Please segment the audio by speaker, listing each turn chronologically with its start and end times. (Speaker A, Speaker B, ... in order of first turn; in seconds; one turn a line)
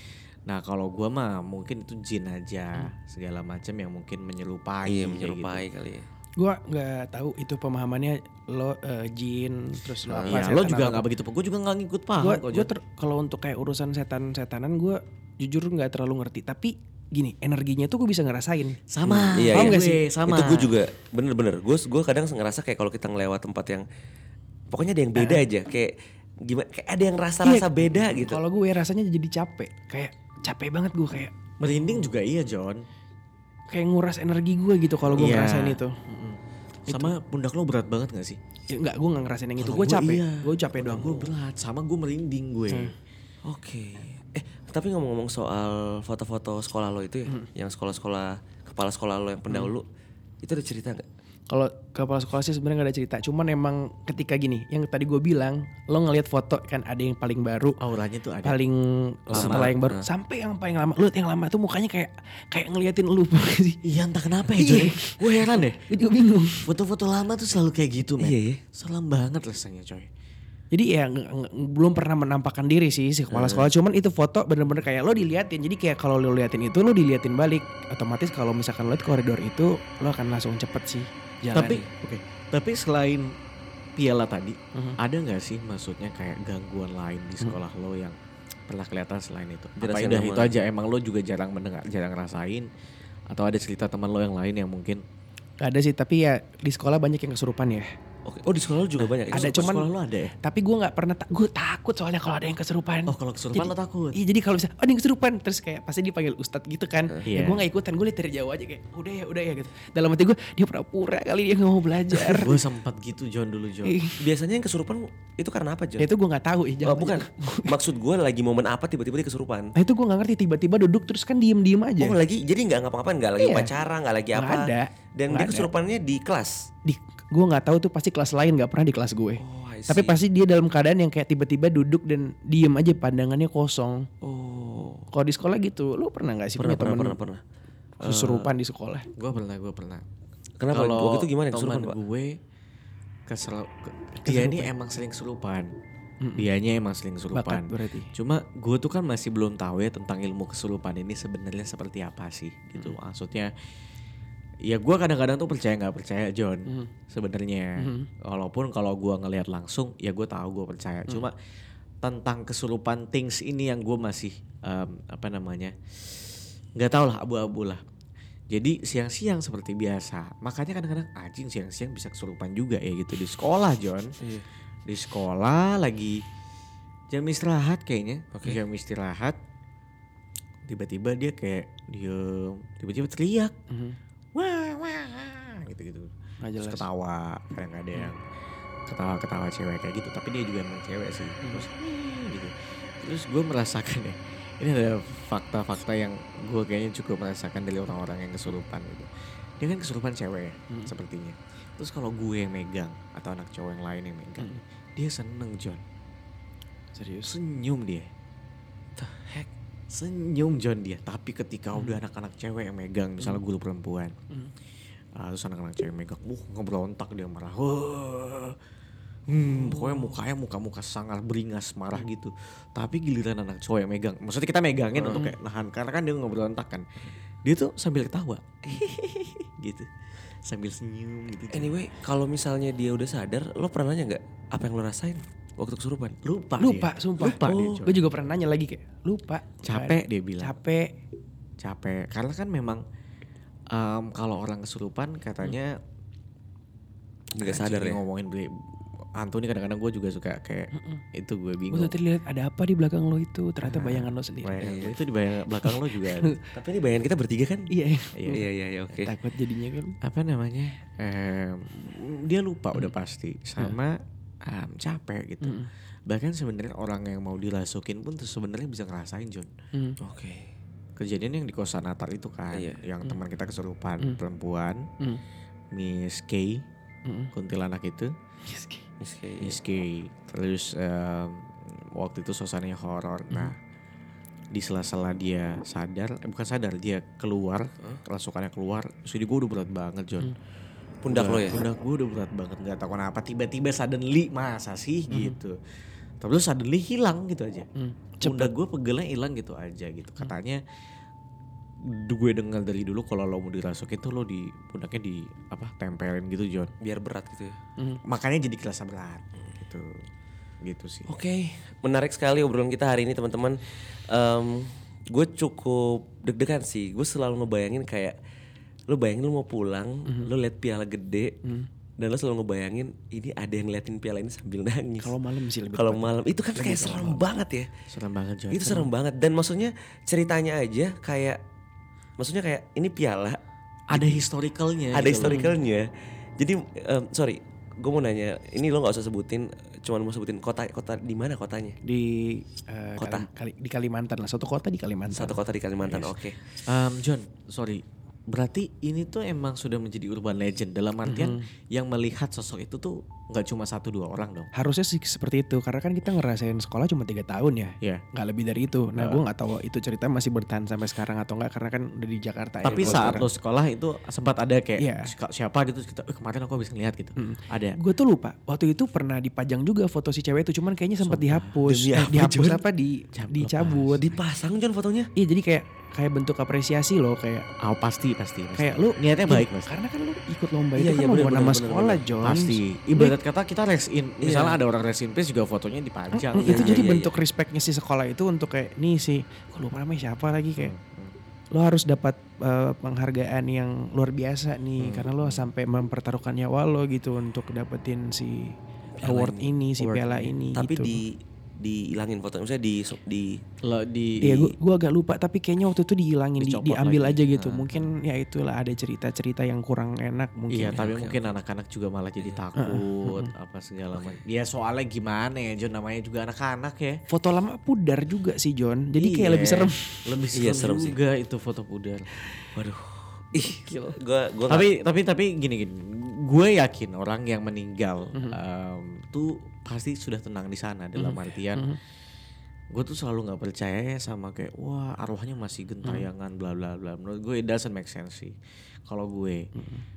Speaker A: 0.5-5.6
Speaker B: 4.8-6.0
Speaker C: 6.4-11.1
Speaker B: 10.2-10.4
Speaker A: 10.2-12.7
Speaker C: 12.2-18.8
Speaker A: 18.9-20.7
Speaker B: 19.1-23.9
Speaker C: 19.5-20.0
Speaker B: 24.7-28.4
Speaker C: 25.2-25.4
Speaker C: 27.4-32.1
Speaker A: 31.6-32.8
Speaker C: 33.7-35.9
Speaker A: 35.1-38.4
Speaker C: 36.9-37.1
Speaker C: 38.7-41.1
Speaker A: 39.6-42.9
Speaker B: 41.0-41.3
Speaker B: 43.5-49.8
Speaker B: 50.4-51.0
Speaker C: 51.5-57.8
Speaker A: 57.8-58.6
Speaker C: 58.4-63.8
Speaker A: 59.3-59.7
Speaker B: 59.3-60.0
Speaker A: 63.8-65.8
Speaker C: 64.5-66.7
Speaker A: 66.6-70.1
Speaker B: 68.2-68.6
Speaker C: 70.7-81.8
Speaker A: 73.3-73.7
Speaker A: 81.5-83.3
Speaker B: 81.6-81.9
Speaker A: 84.0-88.2
Speaker C: 84.7-85.0
Speaker A: 88.7-92.7
Speaker B: 89.8-90.6
Speaker A: 93.3-95.0
Speaker C: 95.6-97.9
Speaker B: 98.2-99.7
Speaker A: 99.0-100.3
Speaker C: 99.3-99.9
Speaker C: 100.4-112.6
Speaker A: 103.1-104.2
Speaker A: 107.2-107.7
Speaker A: 112.2-114.0
Speaker C: 113.8-114.2
Speaker B: 114.2-116.1
Speaker C: 116.0-117.8
Speaker B: 116.8-119.7
Speaker C: 119.7-122.2
Speaker B: 122.0-126.7
Speaker C: 123.4-123.7
Speaker C: 124.3-125.7
Speaker C: 126.8-134.1
Speaker B: 129.4-130.2
Speaker B: 134.2-135.1
Speaker C: 135.1-137.2
Speaker B: 136.6-137.4
Speaker B: 138.0-138.5
Speaker C: 138.0-139.1
Speaker A: 139.2-140.1
Speaker B: 140.6-141.9
Speaker A: 140.7-142.4
Speaker A: 143.3-145.7
Speaker C: 144.2-144.7
Speaker C: 146.2-146.5
Speaker A: 146.4-153.5
Speaker C: 147.3-148.1
Speaker A: 154.6-161.3
Speaker C: 157.8-158.1
Speaker A: 162.0-165.7
Speaker A: 166.8-167.8
Speaker A: 168.5-174.2
Speaker A: 174.9-176.2
Speaker A: 177.1-179.4
Speaker B: 178.3-178.6
Speaker A: 180.6-183.5
Speaker C: 183.7-184.0
Speaker A: 184.3-188.2
Speaker C: 186.4-186.8
Speaker A: 188.9-205.8
Speaker C: 191.4-191.7
Speaker C: 206.9-207.3
Speaker A: 207.2-208.1
Speaker C: 209.0-209.4
Speaker A: 209.9-214.1
Speaker A: 215.1-218.6
Speaker A: 219.3-229.9
Speaker B: 219.5-220.1
Speaker B: 224.9-225.3
Speaker A: 230.4-231.8
Speaker B: 231.5-236.1
Speaker A: 236.1-238.1
Speaker C: 236.6-240.9
Speaker B: 237.4-237.8
Speaker A: 239.6-240.6
Speaker A: 241.6-242.8
Speaker A: 243.7-245.8
Speaker B: 247.3-248.0
Speaker A: 247.4-248.6
Speaker A: 249.2-251.9
Speaker C: 250.7-251.0
Speaker C: 251.7-254.6
Speaker A: 253.6-256.3
Speaker B: 254.6-255.0
Speaker C: 255.6-256.4
Speaker B: 256.5-257.7
Speaker C: 257.7-259.9
Speaker A: 258.1-258.4
Speaker B: 258.3-259.1
Speaker A: 260.0-269.5
Speaker C: 265.4-265.7
Speaker B: 270.0-270.5
Speaker A: 271.0-274.9
Speaker B: 272.5-272.8
Speaker A: 275.7-276.6
Speaker C: 277.1-277.3
Speaker A: 277.3-278.1
Speaker C: 278.4-278.9
Speaker B: 279.0-279.6
Speaker A: 279.4-283.6
Speaker A: 284.5-290.3
Speaker B: 291.0-291.6
Speaker A: 291.1-295.6
Speaker C: 295.1-295.4
Speaker A: 296.2-297.7
Speaker C: 297.8-298.5
Speaker A: 298.2-300.6
Speaker A: 301.8-306.7
Speaker B: 306.8-307.6
Speaker A: 308.0-310.1
Speaker A: 310.6-311.1
Speaker B: 311.1-318.2
Speaker B: 318.9-321.4
Speaker C: 320.1-320.3
Speaker B: 322.0-325.1
Speaker C: 325.0-326.1
Speaker B: 325.7-327.7
Speaker A: 326.6-327.2
Speaker C: 326.6-326.9
Speaker A: 327.9-328.9
Speaker B: 328.5-331.4
Speaker B: 332.2-333.4
Speaker A: 333.9-335.4
Speaker B: 333.9-334.2
Speaker B: 334.9-335.9
Speaker C: 335.2-335.5
Speaker B: 336.4-341.8
Speaker C: 341.8-346.1
Speaker B: 343.0-343.3
Speaker B: 345.1-346.4
Speaker A: 346.6-354.5
Speaker C: 351.0-351.4
Speaker C: 354.5-363.3
Speaker A: 362.6-367.8
Speaker B: 362.7-363.2
Speaker C: 364.8-365.1
Speaker C: 367.2-374.1
Speaker A: 371.0-371.6
Speaker B: 371.6-372.6
Speaker A: 373.1-374.2
Speaker B: 373.9-375.1
Speaker C: 375.1-377.5
Speaker A: 377.6-379.7
Speaker C: 378.6-383.1
Speaker B: 380.8-382.0
Speaker A: 382.2-387.0
Speaker B: 384.2-384.6
Speaker C: 386.1-390.7
Speaker B: 386.4-387.1
Speaker A: 390.6-391.1
Speaker C: 391.5-401.0
Speaker A: 394.8-395.5
Speaker B: 398.9-399.6
Speaker A: 399.8-400.3
Speaker B: 400.6-403.4
Speaker A: 403.6-404.6
Speaker C: 404.2-410.8
Speaker A: 406.4-407.9
Speaker A: 410.5-417.0
Speaker B: 410.6-411.3
Speaker C: 412.6-413.3
Speaker B: 413.9-414.2
Speaker C: 417.1-420.1
Speaker A: 419.0-422.1
Speaker B: 420.3-421.0
Speaker B: 422.4-424.7
Speaker C: 423.3-424.0
Speaker A: 424.5-431.8
Speaker C: 431.0-431.8
Speaker A: 432.7-438.4
Speaker A: 438.9-439.5
Speaker C: 439.5-439.8